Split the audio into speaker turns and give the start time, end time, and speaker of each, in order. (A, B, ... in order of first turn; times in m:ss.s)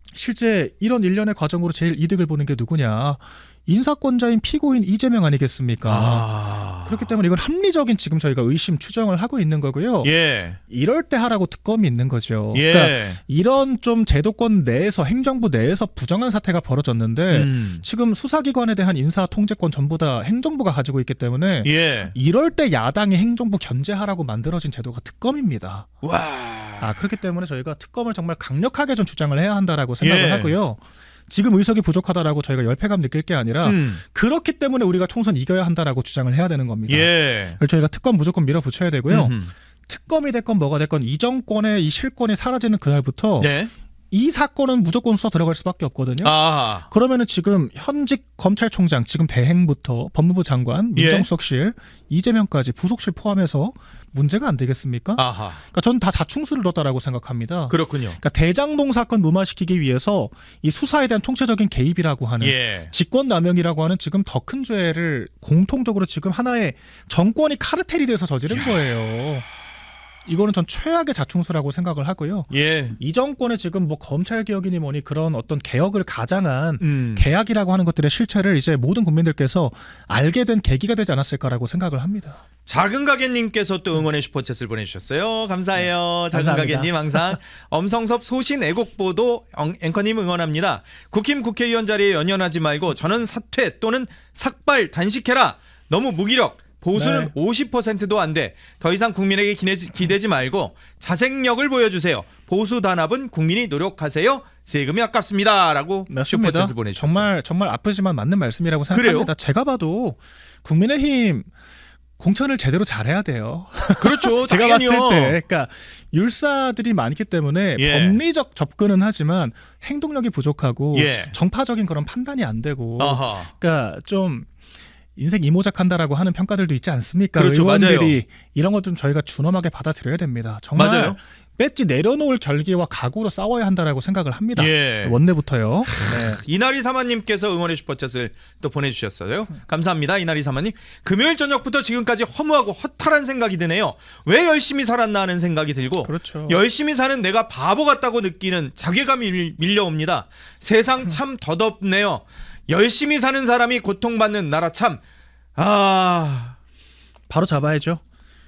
0:00.1-0:10.1 A
0:05.8-0:07.1 B
0:10.0-0:10.6 B
0:10.7-0:25.9 A
0:12.5-0:13.2 B
0:17.3-0:17.8 B
0:21.6-0:22.1 B
0:26.0-0:27.0 B
0:26.8-0:43.6 A
0:30.0-0:30.6 B
0:33.6-0:34.0 B
0:36.9-0:37.6 B
0:39.1-0:39.5 B
0:43.4-0:43.7 B
0:44.1-1:09.5 A
0:46.2-0:46.9 B
0:51.0-0:51.3 B
0:55.2-0:55.6 B
0:57.7-0:58.2 B
1:02.4-1:02.9 B
1:10.3-1:22.4 A
1:12.5-1:13.0 B
1:16.8-1:17.3 B
1:22.7-1:47.3 B
1:26.3-1:27.4 A
1:37.0-1:37.3 A
1:46.1-1:51.5 A
1:48.9-1:49.3 B
1:52.2-2:04.5 A
1:54.0-1:55.4 B
1:57.8-1:58.2 B
2:00.9-2:01.3 B
2:03.0-2:03.5 B
2:05.2-2:16.4 A
2:07.4-2:08.2 B
2:10.8-2:11.2 B
2:14.6-2:15.2 B
2:16.4-2:35.0 B
2:26.0-2:26.6 A
2:35.6-2:36.6 B
2:37.3-2:38.0 A